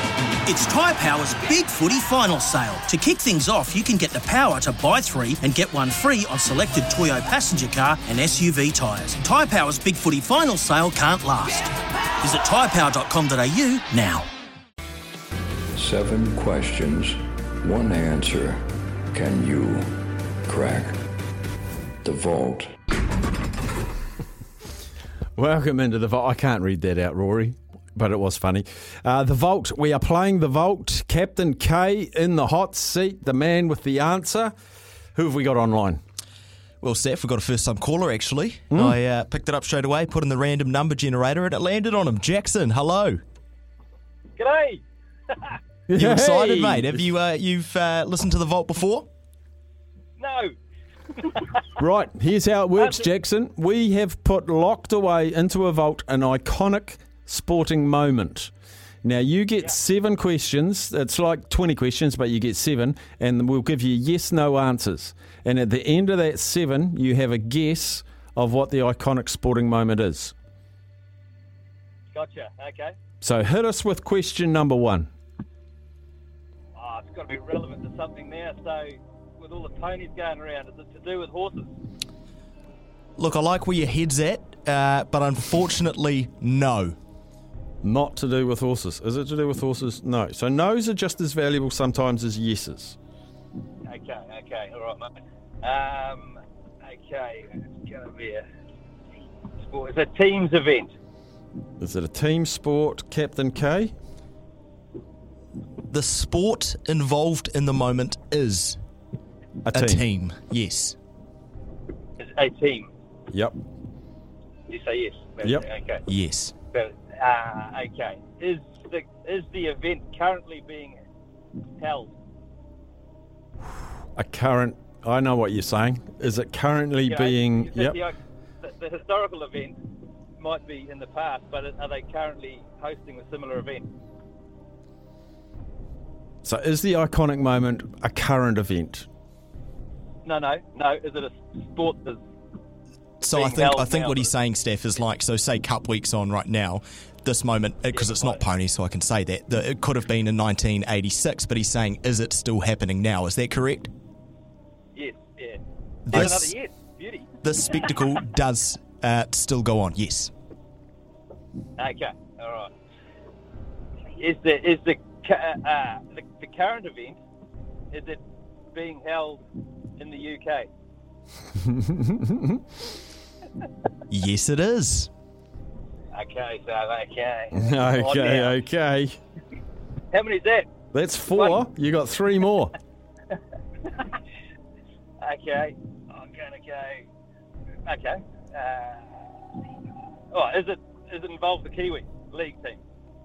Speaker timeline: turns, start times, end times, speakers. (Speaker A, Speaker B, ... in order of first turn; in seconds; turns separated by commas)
Speaker A: 0.5-14.3, Speaker B: 15.7-21.0, Speaker B: 22.0-22.7, Speaker C: 25.4-34.5, Speaker C: 35.1-36.0, Speaker D: 36.8-43.2, Speaker C: 38.7-39.0, Speaker E: 44.4-44.8, Speaker C: 45.9-47.0, Speaker D: 45.9-49.1, Speaker E: 50.2-50.5, Speaker E: 51.2-51.5, Speaker C: 51.8-58.5, Speaker E: 52.8-53.0, Speaker C: 59.0-70.3, Speaker E: 72.1-72.9, Speaker C: 73.2-75.1, Speaker E: 76.8-81.7, Speaker D: 83.2-87.0, Speaker C: 87.8-93.0, Speaker E: 93.9-98.4, Speaker E: 99.6-100.9, Speaker C: 101.8-103.9, Speaker D: 105.9-108.8, Speaker C: 109.6-110.0, Speaker D: 109.7-111.0, Speaker E: 112.2-112.9, Speaker C: 113.3-113.6, Speaker E: 114.7-116.0, Speaker D: 116.1-116.5, Speaker E: 116.7-121.0, Speaker E: 121.8-122.1, Speaker C: 124.2-128.0, Speaker E: 127.1-129.8, Speaker E: 130.4-133.9, Speaker C: 136.4-139.1, Speaker E: 140.2-142.2, Speaker D: 143.2-153.9, Speaker E: 143.3-144.3, Speaker E: 147.9-148.4, Speaker E: 154.9-157.3, Speaker D: 156.1-156.5, Speaker D: 157.4-160.3, Speaker E: 161.8-162.7, Speaker E: 164.2-167.2, Speaker E: 167.9-168.2, Speaker E: 168.7-169.4, Speaker E: 170.0-170.7, Speaker C: 171.6-172.6, Speaker D: 174.1-175.1, Speaker E: 176.1-178.6, Speaker C: 177.5-179.2, Speaker E: 180.1-180.7, Speaker C: 180.9-182.7, Speaker E: 181.3-181.6, Speaker E: 185.2-187.1, Speaker E: 187.8-189.3, Speaker E: 190.3-192.8